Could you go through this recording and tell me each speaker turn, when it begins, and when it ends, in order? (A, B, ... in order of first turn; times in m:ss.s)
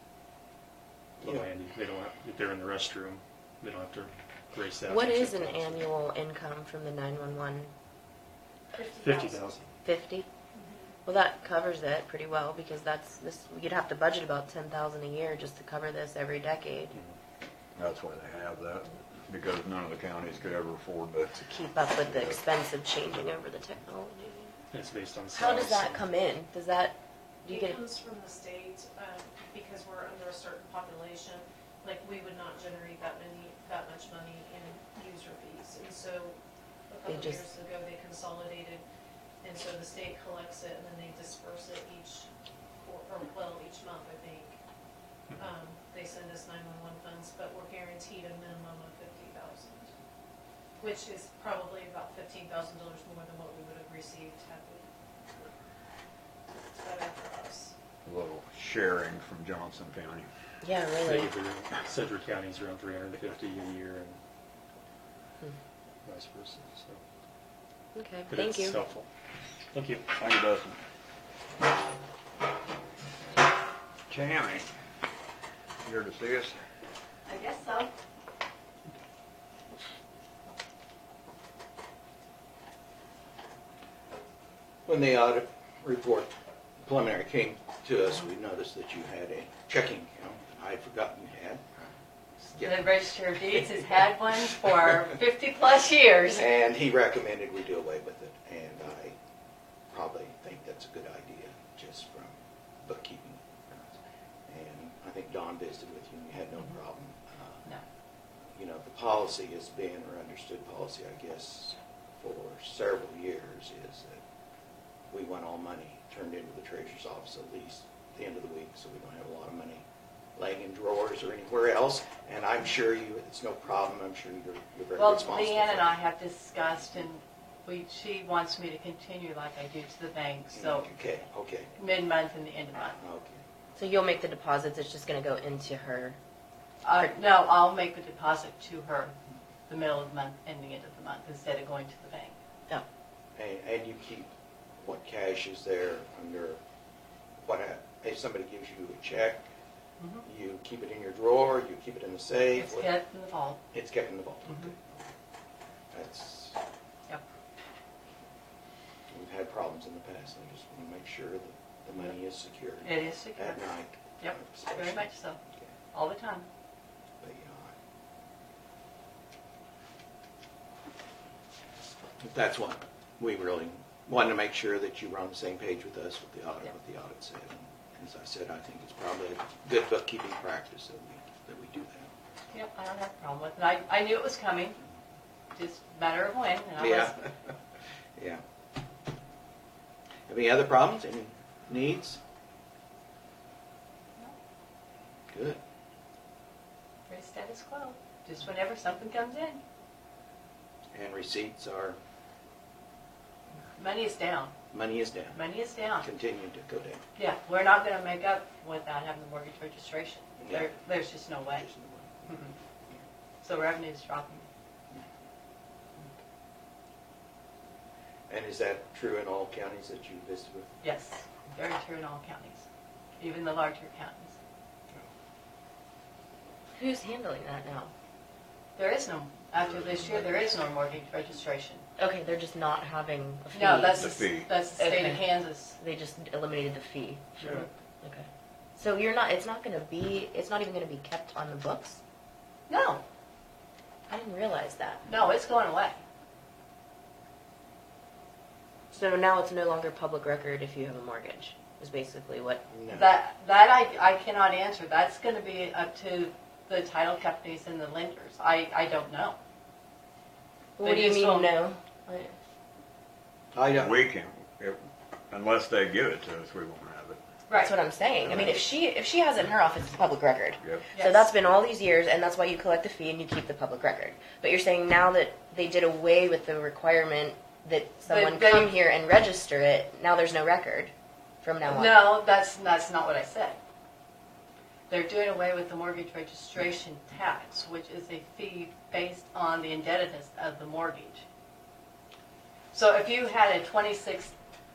0:01.2-0:06.0 A
0:01.2-0:01.5 B
0:04.9-0:07.7 C
0:08.7-0:09.6 D
0:09.0-0:09.7 A
0:09.8-0:10.2 C
0:10.5-0:11.0 D
0:11.0-0:16.9 C
0:17.8-0:22.4 E
0:21.4-0:24.6 C
0:24.7-0:26.1 A
0:25.3-0:27.8 C
0:27.5-0:38.8 D
0:37.0-0:37.4 C
0:39.4-0:44.6 D
0:45.3-0:49.9 D
0:50.8-0:55.5 D
0:56.6-0:57.7 D
0:58.0-1:00.3 E
1:00.6-1:01.3 C
1:01.0-1:04.2 A
1:06.0-1:07.0 A
1:07.9-1:08.8 C
1:08.3-1:09.1 A
1:09.7-1:10.1 A
1:10.1-1:10.8 E
1:14.1-1:14.7 E
1:15.8-1:16.5 E
1:17.2-1:17.9 F
1:24.8-1:26.3 B
1:26.8-1:31.7 B
1:32.4-1:32.8 B
1:32.6-1:36.4 F
1:36.3-1:39.2 B
1:39.9-1:44.0 B
1:44.5-1:47.7 B
1:48.5-1:54.2 B
1:55.1-1:59.8 B
2:00.4-2:06.0 B
2:05.0-2:10.9 F
2:10.5-2:11.8 B
2:11.8-2:13.0 F
2:12.9-2:13.4 B
2:13.8-2:16.2 C
2:16.8-2:19.1 F
2:19.7-2:22.3 F
2:23.4-2:26.6 B
2:27.4-2:29.5 B
2:30.0-2:30.2 F
2:30.2-2:32.9 B
2:32.6-2:33.6 F
2:33.7-2:35.0 B
2:34.4-2:34.7 F
2:35.9-2:36.6 B
2:39.1-2:45.7 B
2:42.8-2:43.6 F
2:44.2-2:45.4 F
2:45.9-2:46.5 F
2:47.2-2:47.7 B
2:52.2-3:02.1 B
3:02.5-3:04.8 F
3:05.5-3:07.2 F
3:06.8-3:07.5 B
3:08.2-3:08.4 B
3:10.3-3:12.2 B
3:15.3-3:15.6 B
3:17.1-3:19.6 F
3:20.9-3:22.0 B
3:23.8-3:24.5 F
3:24.7-3:25.4 B
3:25.3-3:26.1 F
3:26.0-3:27.0 B
3:27.2-3:31.7 F
3:30.4-3:30.7 B
3:31.5-3:32.4 B
3:32.3-3:32.6 F
3:33.4-3:34.5 F
3:38.3-3:40.7 B
3:40.8-3:42.6 F
3:43.2-3:44.4 F
3:46.8-3:47.9 C
3:48.8-3:51.8 F
3:49.6-3:50.3 E
3:52.0-3:54.1 C
3:53.5-3:55.8 F
3:53.9-3:54.6 E
3:54.6-4:02.0 C
3:57.4-3:57.7 A
4:02.7-4:03.0 F
4:04.1-4:05.0 C
4:05.1-4:06.0 F
4:08.9-4:12.6 C
4:12.7-4:13.1 B
4:12.9-4:19.4 F
4:20.8-4:22.3 C
4:20.8-4:21.5 F
4:23.5-4:24.0 B
4:23.7-4:24.8 E
4:25.3-4:27.2 E
4:27.5-4:27.7 F
4:27.5-4:40.9 C
4:28.2-4:28.6 E
4:30.6-4:30.9 E
4:30.9-4:31.3 F
4:38.0-4:38.7 F
4:41.4-4:42.1 C
4:41.7-4:43.6 F
4:44.9-4:51.2 F
4:52.7-4:54.3 F